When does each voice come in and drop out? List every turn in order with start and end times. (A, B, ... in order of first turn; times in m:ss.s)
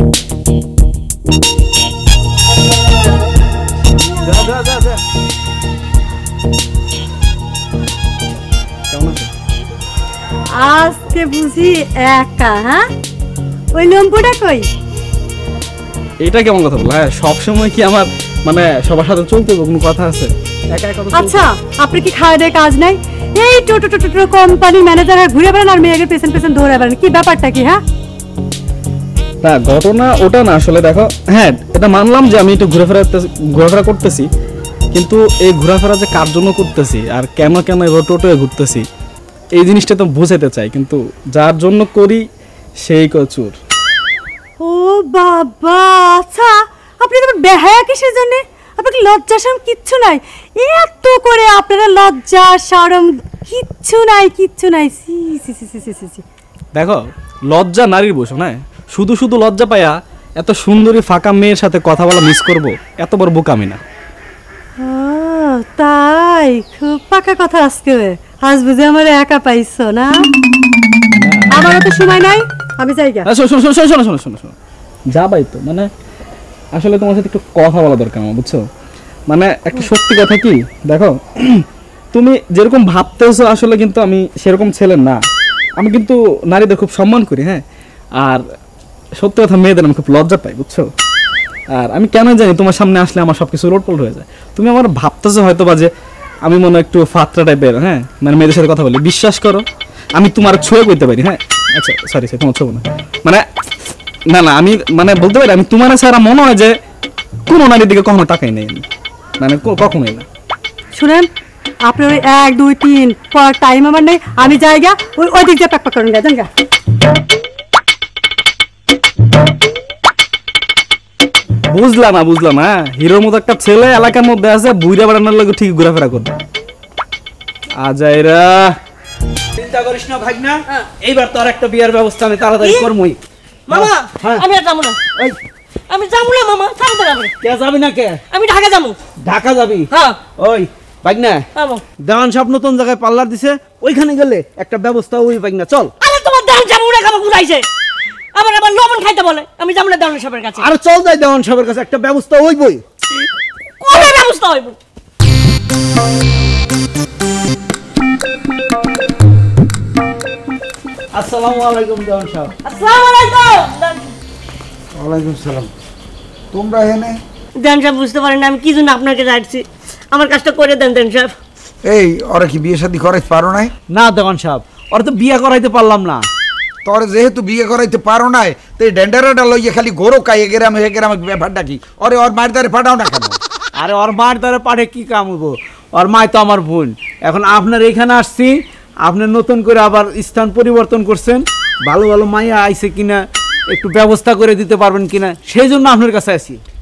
0:08.9-0:09.3 A
0:10.5-0:12.8 B
0:13.8-0:14.7 B
0:16.2-0:21.4 A
0:21.1-0:27.8 B
0:29.4-0:34.3 A
0:34.9-0:38.8 A
0:39.6-0:42.2 A
0:42.8-0:43.6 A
0:44.6-0:56.2 B
0:56.8-1:03.8 A
1:04.8-1:10.2 B
1:11.2-1:11.5 A
1:11.5-1:13.3 B
1:13.3-1:14.5 A
1:15.1-1:15.9 A
1:16.8-1:18.6 A
1:19.3-1:25.2 A
1:25.8-1:27.6 A
1:29.2-1:30.9 A
1:31.8-1:35.9 A
1:36.5-1:39.6 A
1:40.2-1:43.4 A
1:44.3-1:46.7 A
1:47.5-1:48.8 A
1:49.4-1:50.2 A
1:51.0-1:51.3 B
1:51.8-1:56.5 B
2:01.7-2:06.3 A
2:07.8-2:08.8 A
2:09.6-2:13.2 C
2:12.6-2:12.9 D
2:13.7-2:15.0 D
2:13.8-2:14.4 C
2:15.9-2:17.3 D
2:17.5-2:18.2 C
2:18.3-2:19.0 D
2:19.3-2:19.8 C
2:19.9-2:20.2 D
2:20.4-2:21.4 C
2:21.6-2:21.8 D
2:22.0-2:25.9 C
2:26.0-2:27.7 D
2:28.4-2:30.7 D
2:30.6-2:32.8 C
2:33.8-2:34.8 D
2:41.2-2:42.5 C
2:42.6-2:44.1 D
2:45.0-2:45.7 E
2:46.5-2:47.2 E
2:47.6-2:51.4 D
2:51.8-2:53.7 E
2:53.9-2:56.3 C
2:56.8-3:03.4 E
3:03.8-3:16.6 C